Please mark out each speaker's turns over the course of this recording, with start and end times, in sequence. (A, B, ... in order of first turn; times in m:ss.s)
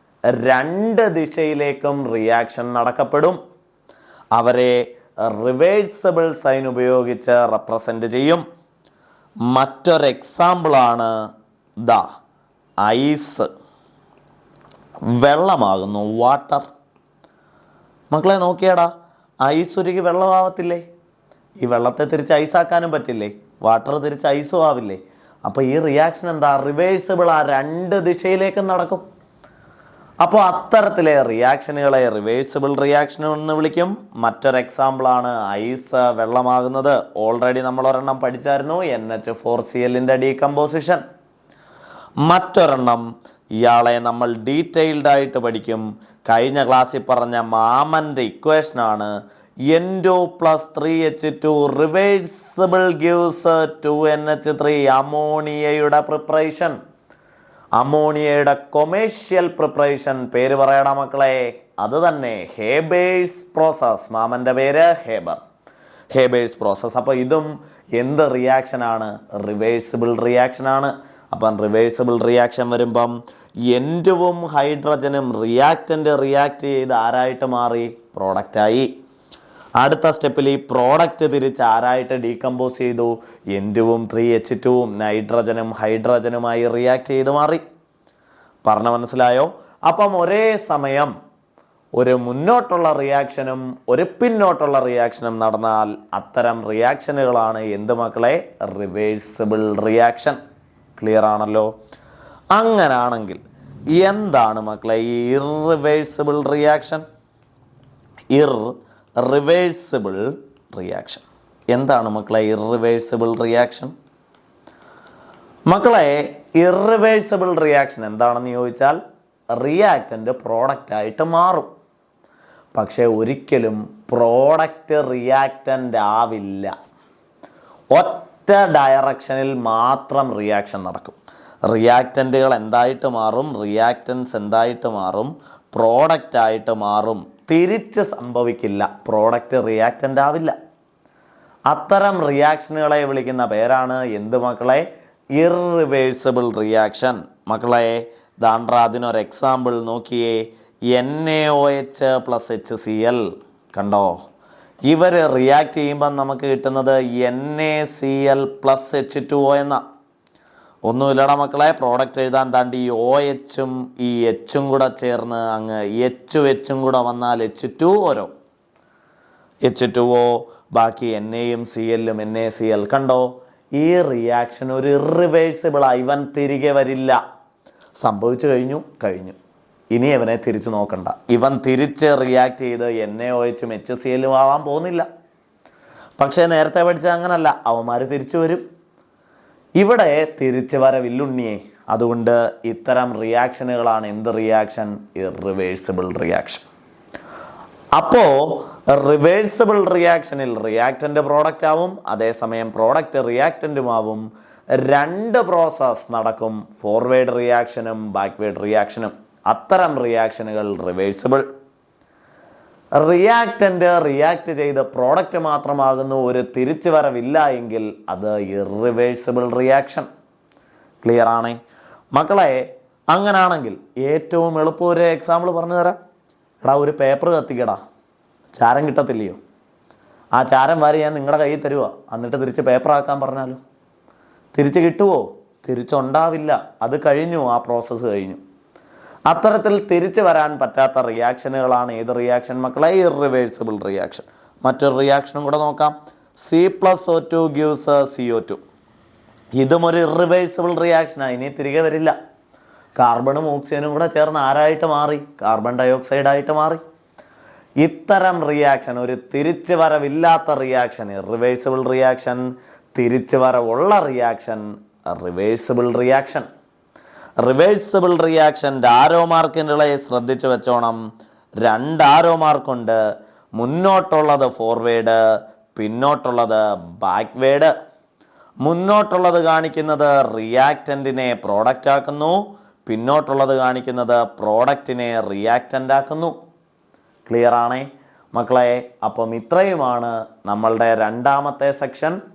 0:00.3-0:03.4 A
0:04.4-0:08.4 A
0:09.5-0:11.1 A
0:11.8-0:12.0 A
0:12.8-0:13.5 A
0:15.1-0:16.7 A
0:18.1-0:18.9 A
0:19.4-0:20.8 A
0:21.6-0:29.0 A
0:30.2-0:41.0 A
0:42.2-0:43.0 A
0:43.6-0:49.1 A
0:49.7-0:56.8 A
0:57.8-1:05.4 A
1:06.1-1:13.1 A
1:13.7-1:18.9 A
1:19.8-1:27.6 A
1:28.6-1:31.1 A
1:32.0-1:40.4 A
1:41.0-1:41.7 A
1:42.5-1:43.4 A
1:43.9-1:47.0 A
1:48.3-1:53.9 A
1:55.7-1:59.0 A
1:59.5-2:01.7 A
2:02.7-2:06.7 A
2:07.9-2:20.5 A
2:21.7-2:24.8 A
2:25.4-2:33.2 A
2:33.7-2:34.1 A
2:34.9-2:39.8 A
2:40.9-2:48.3 A
2:49.6-2:57.2 A
2:58.0-2:59.4 A
2:59.9-3:05.1 A
3:06.2-3:08.6 A
3:09.8-3:16.6 A
3:18.0-3:24.2 A
3:24.8-3:31.4 A
3:33.0-3:40.1 A
3:41.0-3:41.6 A
3:42.1-3:46.0 A
3:46.6-3:47.8 A
3:48.6-3:49.4 A
3:50.4-3:53.6 A
3:54.5-3:58.4 A
3:59.3-4:08.6 A
4:09.6-4:12.1 A
4:13.0-4:16.8 A
4:17.8-4:22.4 A
4:22.9-4:26.5 A
4:27.4-4:31.0 A
4:31.6-4:33.0 A
4:33.6-4:35.2 A
4:35.7-4:37.7 A
4:38.6-4:46.3 A
4:47.3-4:52.2 A